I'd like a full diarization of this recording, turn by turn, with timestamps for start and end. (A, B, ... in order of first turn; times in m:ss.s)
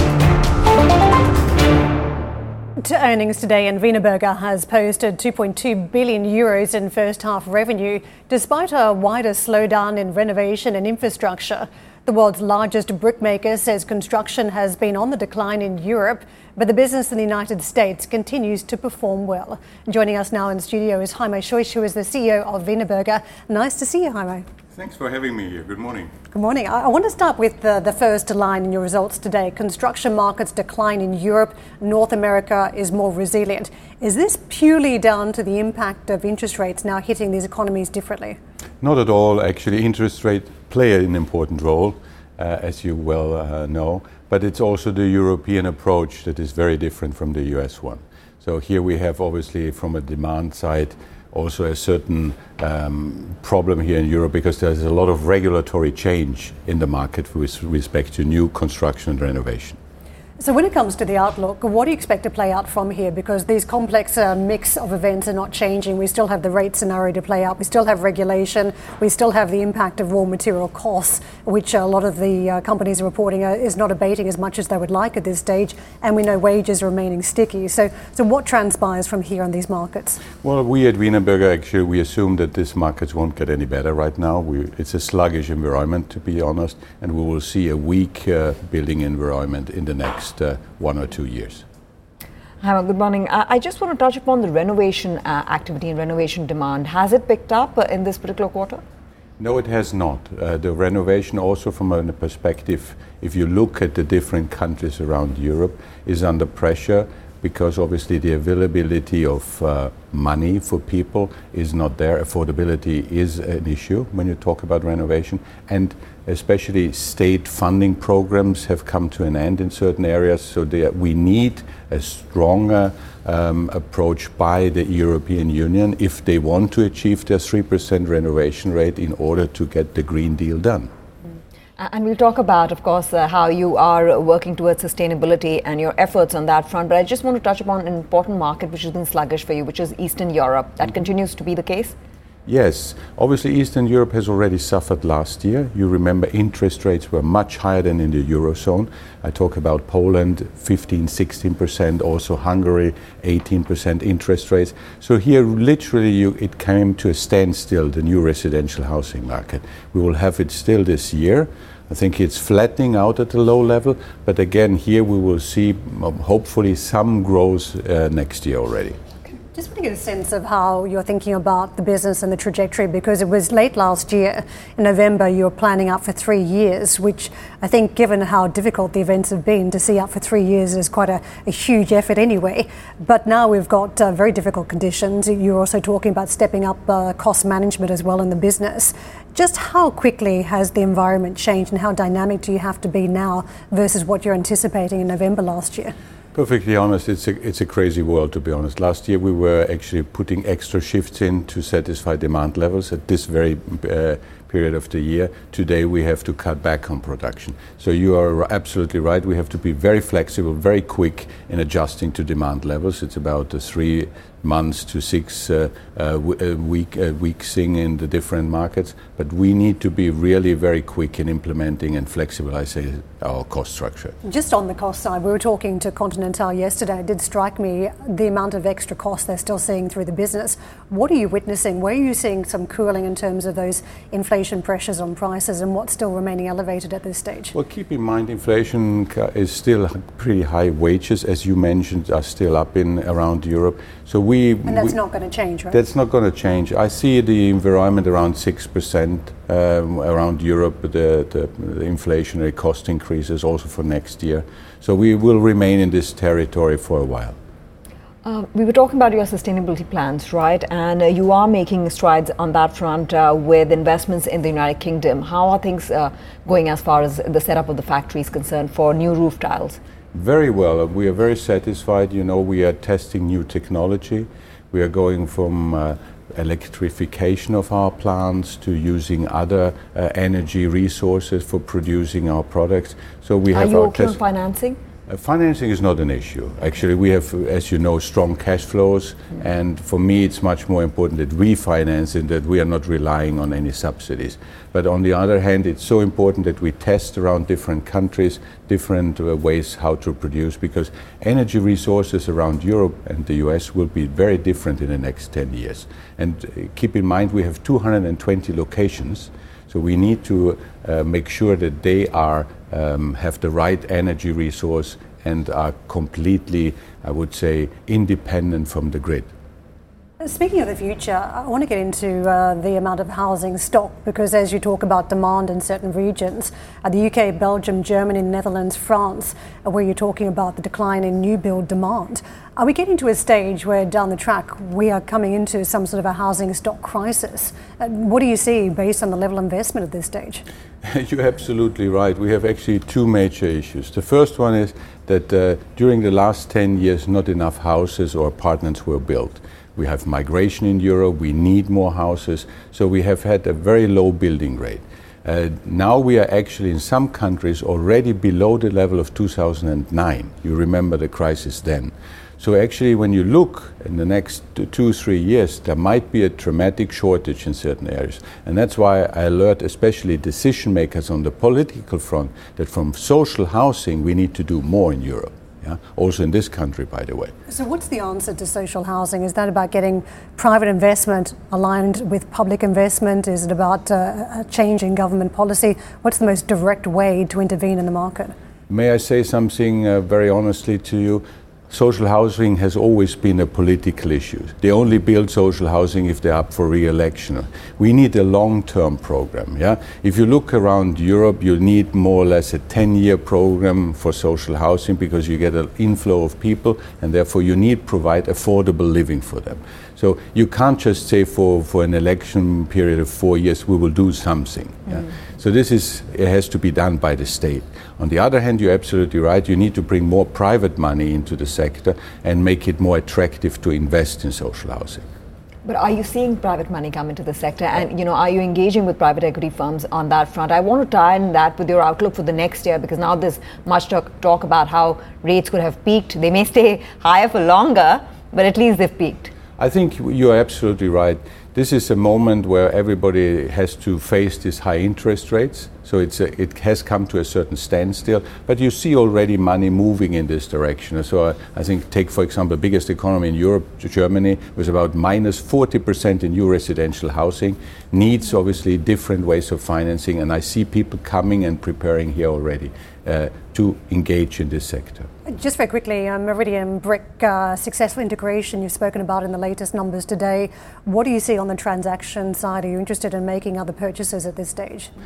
0:02.8-0:24.4 A
0:24.8-0:26.1 B
0:26.3-0:38.4 A
0:38.8-0:59.8 B
1:00.4-1:20.2 A
1:20.4-1:31.6 B
1:32.6-1:38.8 C
1:39.4-2:10.9 B
2:11.8-2:22.0 C
2:22.5-2:49.0 B
2:49.5-3:15.9 A
3:16.3-3:44.2 B
3:44.2-3:57.5 A
3:57.5-4:05.0 B
4:04.7-4:05.8 A
4:05.7-4:17.4 B
4:18.2-4:29.8 C
4:30.1-4:44.2 B
4:43.5-4:44.8 C
4:45.1-5:19.3 B
5:20.2-5:40.4 A
5:40.8-6:17.3 B
6:17.5-6:28.3 A
6:28.7-7:05.0 B
7:05.6-7:19.3 C
7:19.6-7:45.1 B
7:45.3-7:54.9 A